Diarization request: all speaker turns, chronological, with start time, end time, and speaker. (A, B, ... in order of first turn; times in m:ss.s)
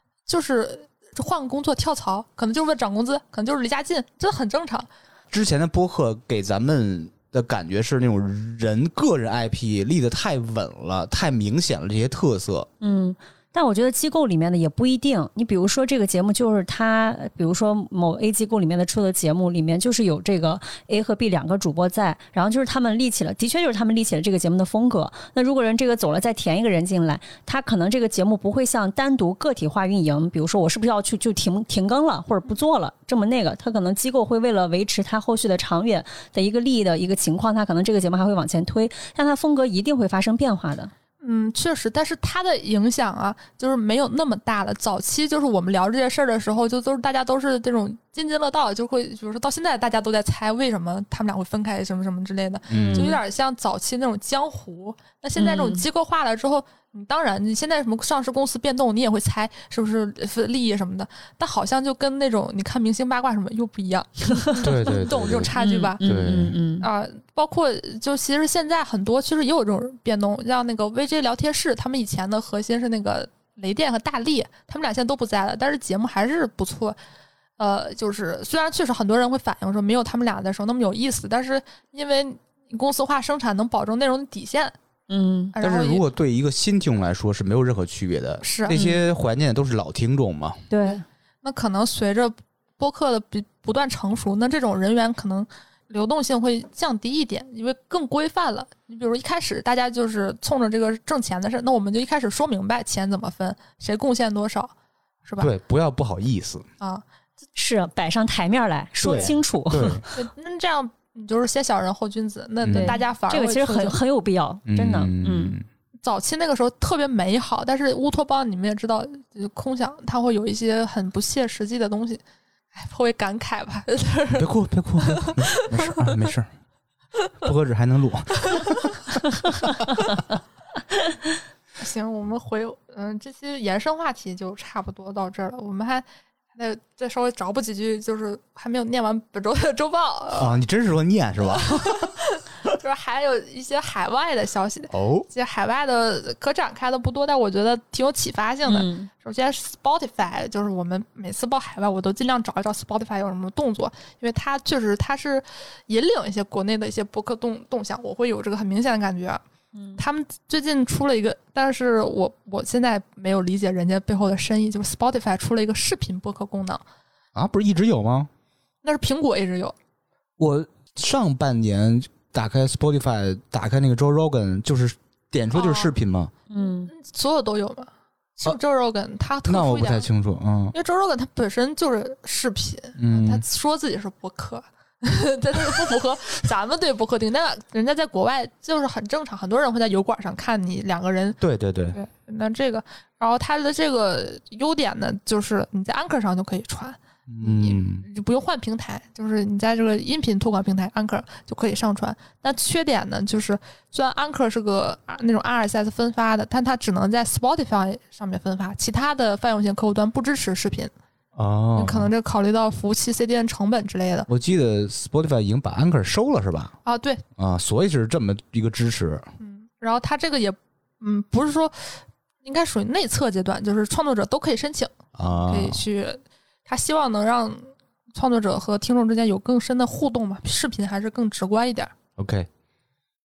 0:00.3-0:04.9 A
0:05.3-0:12.7 B
0:12.8-0:40.9 C
0:41.2-1:06.0 A
0:52.7-0:53.2 B
0:52.7-0:53.2 C
0:55.4-0:55.8 C
1:04.3-1:04.6 C
1:04.6-1:06.6 B
1:05.6-1:06.9 C
1:06.8-1:17.0 A
1:17.6-1:24.7 A
1:25.1-1:25.5 C
1:25.5-1:26.0 A
1:25.6-1:30.7 B
1:28.4-1:28.9 A
1:28.7-1:29.0 C
1:30.7-1:31.0 C
1:30.9-1:44.7 A
1:45.2-1:45.5 A
1:45.4-1:46.7 B
1:47.6-1:50.2 C
1:49.0-1:50.0 B
1:50.1-1:54.0 A
1:52.6-1:52.9 B
1:52.7-1:55.6 C
1:54.7-1:55.6 B
1:56.0-2:02.2 A
2:02.7-2:06.2 A
2:04.4-2:06.5 B
2:07.4-2:09.2 B
2:08.5-2:08.8 A
2:11.8-2:20.6 A
2:20.4-2:22.1 B
2:21.4-2:39.4 A
2:24.9-2:25.3 B
2:28.6-2:29.1 C
2:40.0-2:46.8 A
2:47.3-2:48.3 B
2:48.8-2:49.7 A
2:50.4-2:56.3 B
2:55.5-2:55.9 A
2:56.5-2:56.9 C
2:56.9-3:00.1 A
2:59.4-3:00.7 B
3:00.7-3:11.4 A
3:03.0-3:03.4 B
3:11.4-3:12.0 B
3:11.9-3:30.9 A
3:17.3-3:18.0 B
3:31.4-3:32.1 B
3:31.8-3:34.3 A
3:34.3-3:36.8 B
3:36.8-3:37.2 A
3:37.4-3:39.3 B
3:39.4-3:44.9 A
3:45.2-3:45.8 B
3:45.5-3:51.9 A
3:52.2-3:52.5 B